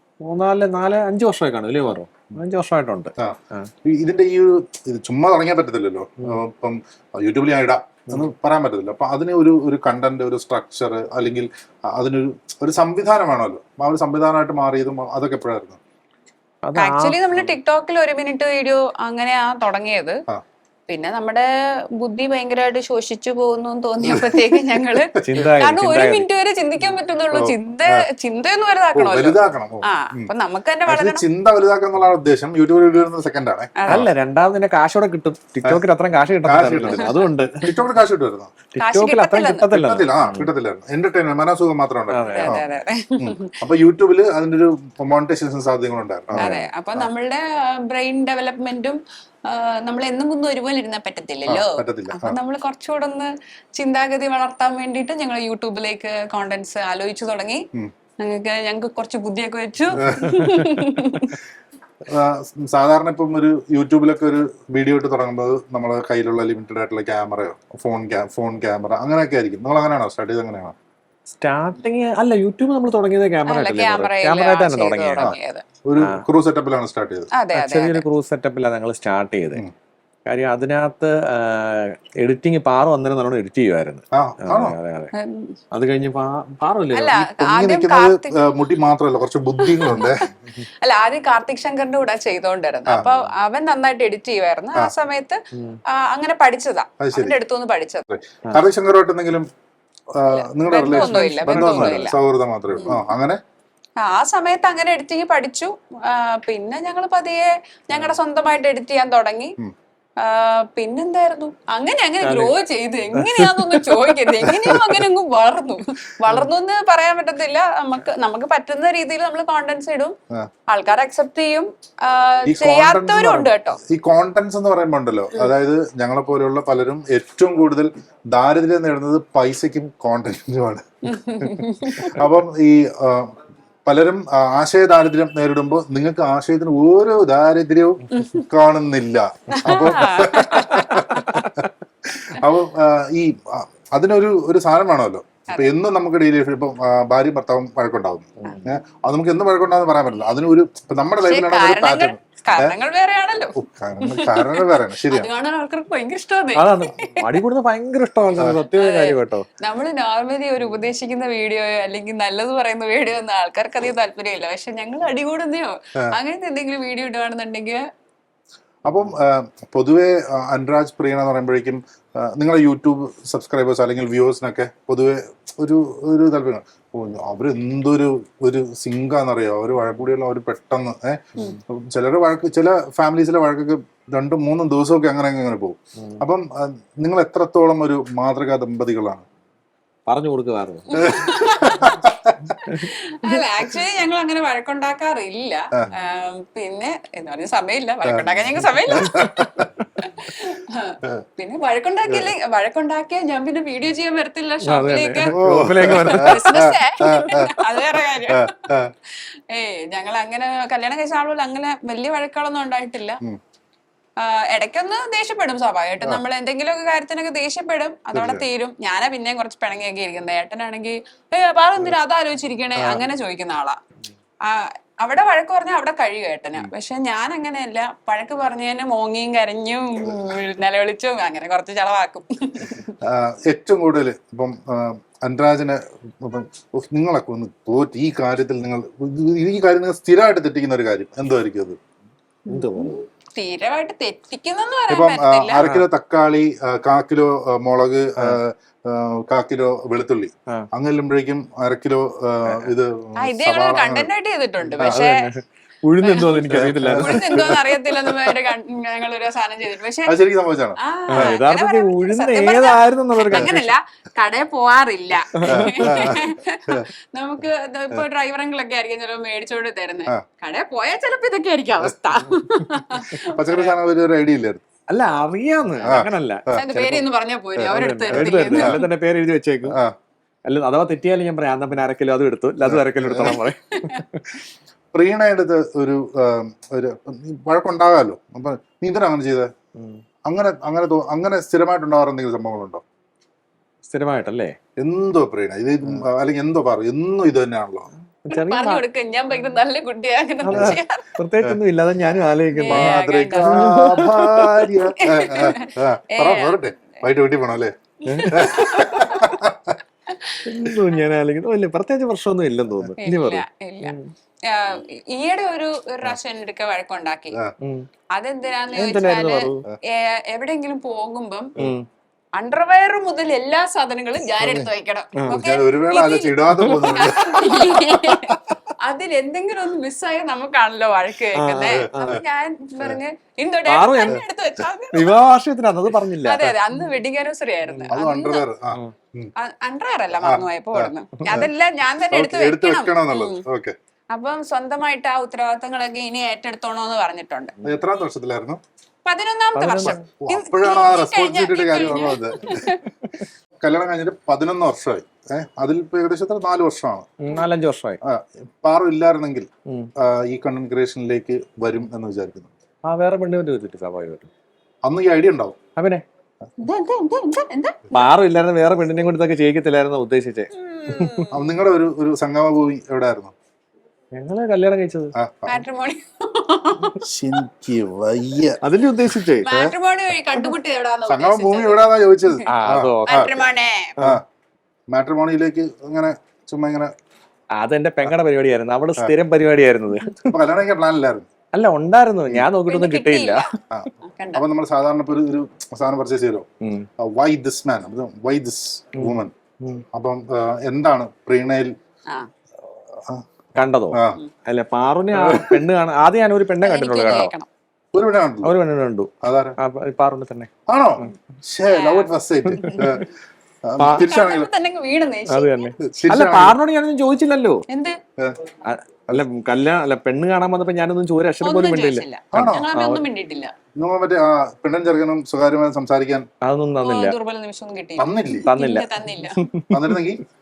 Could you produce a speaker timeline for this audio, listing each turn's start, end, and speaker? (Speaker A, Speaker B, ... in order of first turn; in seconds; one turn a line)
Speaker A: 0.2-3.7
Speaker B: 3.2-15.8
Speaker A: 16.6-17.5
Speaker C: 16.8-20.2
Speaker C: 20.9-31.2
Speaker A: 25.2-26.2
Speaker B: 27.3-28.0
Speaker B: 28.9-30.3
Speaker B: 30.9-34.1
Speaker C: 33.8-34.0
Speaker A: 33.9-37.8
Speaker B: 36.4-38.5
Speaker A: 38.7-40.5
Speaker C: 38.8-39.7
Speaker B: 39.7-42.6
Speaker A: 42.1-42.6
Speaker C: 42.3-43.5
Speaker B: 43.2-47.1
Speaker A: 46.3-46.7
Speaker C: 46.4-57.7
Speaker B: 51.5-52.4
Speaker C: 58.2-61.4
Speaker B: 60.0-60.5
Speaker A: 60.1-60.6
Speaker B: 62.1-70.7
Speaker A: 71.4-75.3
Speaker C: 73.5-75.6
Speaker B: 75.2-77.3
Speaker A: 76.0-76.2
Speaker C: 77.3-78.0
Speaker A: 77.5-79.6
Speaker A: 80.3-85.1
Speaker B: 84.1-84.8
Speaker C: 85.2-85.5
Speaker A: 85.7-87.2
Speaker C: 86.9-88.4
Speaker B: 87.1-90.3
Speaker C: 89.6-95.4
Speaker A: 93.0-93.3
Speaker C: 95.9-98.1
Speaker B: 97.0-97.3
Speaker B: 98.1-99.5
Speaker B: 100.1-103.4
Speaker C: 100.3-102.2
Speaker A: 100.9-102.1
Speaker C: 104.0-109.5
Speaker C: 110.2-120.2
Speaker A: 112.2-112.5
Speaker A: 113.1-115.0
Speaker C: 120.7-123.8
Speaker B: 122.5-130.9
Speaker C: 131.1-132.2
Speaker B: 131.9-152.7
Speaker C: 138.1-138.4
Speaker C: 139.6-141.4
Speaker A: 148.4-148.7
Speaker C: 151.2-157.4
Speaker B: 153.6-155.3
Speaker A: 156.5-159.4
Speaker C: 158.7-167.8
Speaker B: 168.8-189.2
Speaker A: 186.0-186.2
Speaker A: 190.1-191.3
Speaker C: 190.9-192.0
Speaker B: 191.1-192.5
Speaker C: 192.6-213.2
Speaker B: 198.1-199.6
Speaker A: 204.6-207.9
Speaker B: 205.3-207.5
Speaker B: 208.3-208.9
Speaker C: 214.2-223.8
Speaker B: 218.1-218.4
Speaker B: 222.8-223.0
Speaker C: 224.4-233.0
Speaker B: 233.0-241.8
Speaker A: 242.5-243.0
Speaker C: 242.5-245.7
Speaker B: 244.9-254.1
Speaker A: 245.6-245.9
Speaker A: 252.4-252.7
Speaker C: 253.2-255.2
Speaker B: 254.6-255.0
Speaker A: 254.8-257.5
Speaker C: 256.0-260.1
Speaker B: 256.5-257.6
Speaker B: 260.1-261.4
Speaker C: 260.8-273.8
Speaker A: 261.1-263.7
Speaker A: 265.4-266.1
Speaker B: 265.4-266.8
Speaker B: 273.1-274.6
Speaker A: 274.9-276.4
Speaker B: 275.8-277.0
Speaker C: 276.5-278.9
Speaker B: 277.6-278.8
Speaker A: 277.7-279.8
Speaker B: 279.7-279.9
Speaker A: 280.4-284.3
Speaker B: 282.6-283.4
Speaker B: 284.9-289.5
Speaker A: 289.7-290.0
Speaker B: 290.3-292.8
Speaker A: 293.9-294.6
Speaker B: 294.8-297.9
Speaker A: 298.2-298.8
Speaker C: 298.3-301.1
Speaker A: 300.4-304.7
Speaker B: 300.5-300.7
Speaker C: 302.6-303.8
Speaker B: 302.6-307.7
Speaker C: 304.9-307.0
Speaker A: 308.1-309.0
Speaker C: 308.1-309.4
Speaker B: 308.3-309.8
Speaker C: 310.1-310.4
Speaker A: 310.4-314.1
Speaker C: 313.0-317.4
Speaker A: 317.6-317.9
Speaker C: 318.1-321.5
Speaker A: 318.7-319.6
Speaker A: 321.6-321.8
Speaker C: 322.3-335.1
Speaker B: 324.4-324.7
Speaker A: 325.2-325.4
Speaker B: 325.3-328.4
Speaker A: 326.5-327.0
Speaker A: 331.3-332.2
Speaker B: 331.7-332.2
Speaker A: 333.7-334.2
Speaker A: 334.9-336.5
Speaker C: 336.2-338.4
Speaker A: 337.6-337.9
Speaker B: 337.9-339.3
Speaker C: 339.4-343.4
Speaker B: 340.2-341.5
Speaker B: 342.1-343.7
Speaker C: 344.1-347.5
Speaker B: 347.6-348.6
Speaker C: 349.0-352.9
Speaker A: 349.5-350.0
Speaker B: 349.8-352.7
Speaker B: 353.6-357.1
Speaker A: 357.2-358.0
Speaker B: 358.0-359.5
Speaker B: 360.0-362.5
Speaker A: 362.9-364.3
Speaker B: 364.8-365.6
Speaker A: 365.8-366.0
Speaker C: 366.6-368.0
Speaker A: 367.9-371.2
Speaker C: 370.5-371.5
Speaker B: 371.3-373.3
Speaker A: 374.1-375.1
Speaker B: 375.1-375.6
Speaker C: 375.4-377.0
Speaker B: 377.0-378.6
Speaker A: 378.6-379.5
Speaker C: 379.4-381.9
Speaker B: 379.4-379.7
Speaker B: 381.1-383.3
Speaker A: 382.5-384.2
Speaker C: 383.1-383.9
Speaker B: 384.9-386.9
Speaker A: 387.6-390.4
Speaker B: 390.3-391.3
Speaker A: 391.5-393.4
Speaker C: 392.7-394.4
Speaker B: 393.7-396.5
Speaker A: 396.6-396.9
Speaker B: 397.0-399.3
Speaker A: 399.0-399.8
Speaker B: 399.9-401.7
Speaker A: 403.5-407.3
Speaker B: 403.9-404.2
Speaker B: 405.1-405.6
Speaker C: 406.6-407.5
Speaker B: 407.9-408.6
Speaker A: 408.4-410.5
Speaker B: 409.2-409.6
Speaker B: 410.7-413.1
Speaker C: 411.7-413.0
Speaker A: 412.5-412.8
Speaker B: 413.6-414.5
Speaker A: 413.8-414.1
Speaker C: 413.9-415.7
Speaker A: 415.3-417.6
Speaker B: 415.8-416.6
Speaker C: 417.7-418.0
Speaker A: 418.6-423.0
Speaker C: 421.4-423.5
Speaker B: 422.3-422.7
Speaker B: 423.8-426.2
Speaker A: 426.4-427.2
Speaker C: 426.8-429.5
Speaker B: 428.0-428.5
Speaker A: 428.4-430.0
Speaker B: 429.7-430.2